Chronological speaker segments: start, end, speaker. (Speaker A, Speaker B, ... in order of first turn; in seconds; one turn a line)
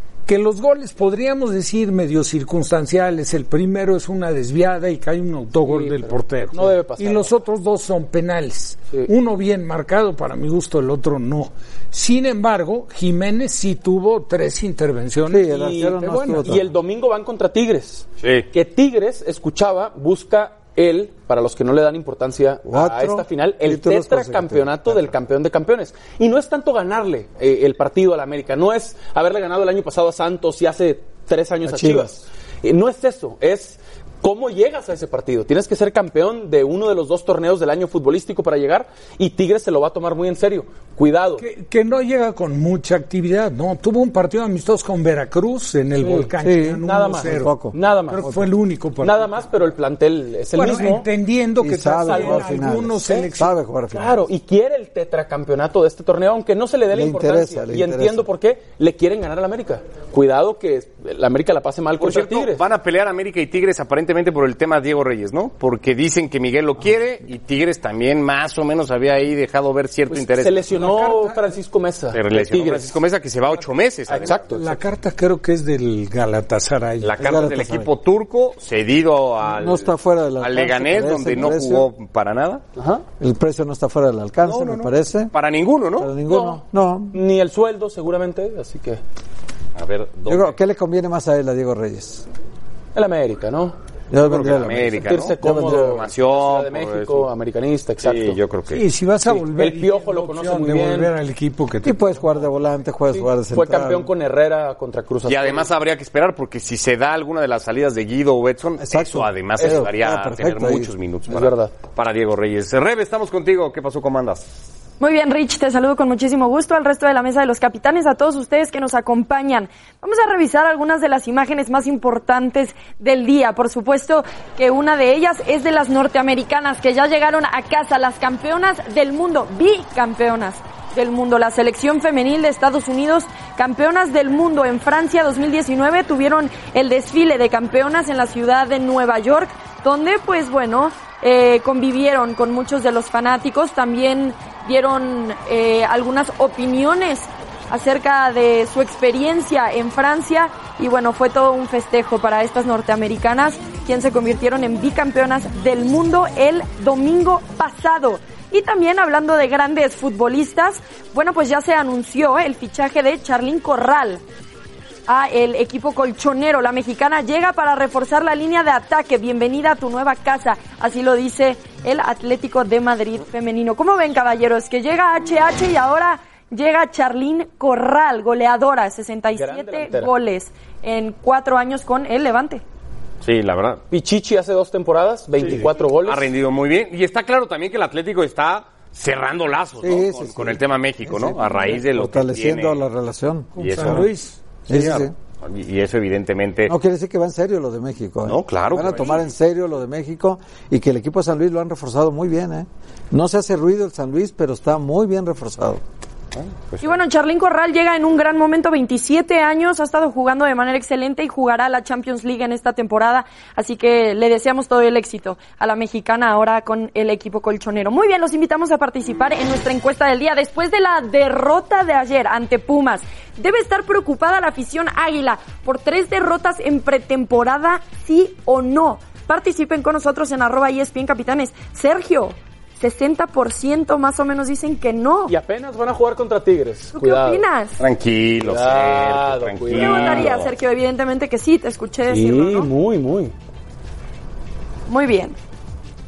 Speaker A: 0.2-16.5
Speaker B: 5.6-7.4
Speaker C: 15.3-16.7
Speaker B: 15.5-41.4
Speaker D: 18.2-18.5
Speaker C: 22.6-25.1
Speaker C: 31.6-32.1
Speaker A: 41.4-49.5
Speaker B: 46.0-46.3
Speaker C: 46.4-48.5
Speaker B: 46.8-48.2
Speaker B: 49.0-51.1
Speaker A: 50.5-53.6
Speaker C: 51.6-54.2
Speaker B: 52.0-53.3
Speaker B: 53.9-62.6
Speaker C: 56.9-58.3
Speaker D: 62.0-70.7
Speaker B: 70.1-73.0
Speaker A: 70.7-71.5
Speaker D: 72.1-74.4
Speaker B: 74.1-74.7
Speaker A: 74.5-77.1
Speaker D: 77.0-79.9
Speaker C: 77.2-77.9
Speaker C: 79.5-81.9
Speaker D: 80.4-82.6
Speaker B: 82.8-83.0
Speaker C: 83.2-85.3
Speaker D: 84.5-86.2
Speaker C: 86.0-87.2
Speaker B: 86.2-89.0
Speaker D: 89.8-90.5
Speaker C: 90.3-92.2
Speaker B: 92.9-93.8
Speaker C: 94.1-96.0
Speaker D: 94.2-97.3
Speaker B: 94.9-98.4
Speaker D: 98.0-98.8
Speaker A: 98.7-102.3
Speaker B: 99.3-101.1
Speaker C: 101.8-104.1
Speaker B: 103.1-105.7
Speaker D: 105.2-114.6
Speaker C: 108.8-110.9
Speaker B: 109.6-109.9
Speaker B: 111.3-111.8
Speaker E: 115.0-164.2
Speaker E: 165.1-182.6
Speaker B: 179.3-180.1
Speaker D: 183.2-183.8
Speaker B: 183.9-186.3
Speaker D: 185.5-192.8
Speaker C: 189.8-194.1
Speaker A: 193.6-195.1
Speaker D: 193.6-194.1
Speaker C: 194.7-195.1
Speaker D: 195.4-196.7
Speaker C: 196.7-205.8
Speaker D: 198.2-199.2
Speaker D: 206.3-207.0
Speaker E: 206.8-235.3
Speaker B: 235.3-237.4
Speaker E: 236.9-237.8
Speaker D: 237.8-240.5
Speaker B: 238.4-240.4
Speaker E: 239.7-242.7
Speaker B: 242.1-243.3
Speaker E: 244.9-245.3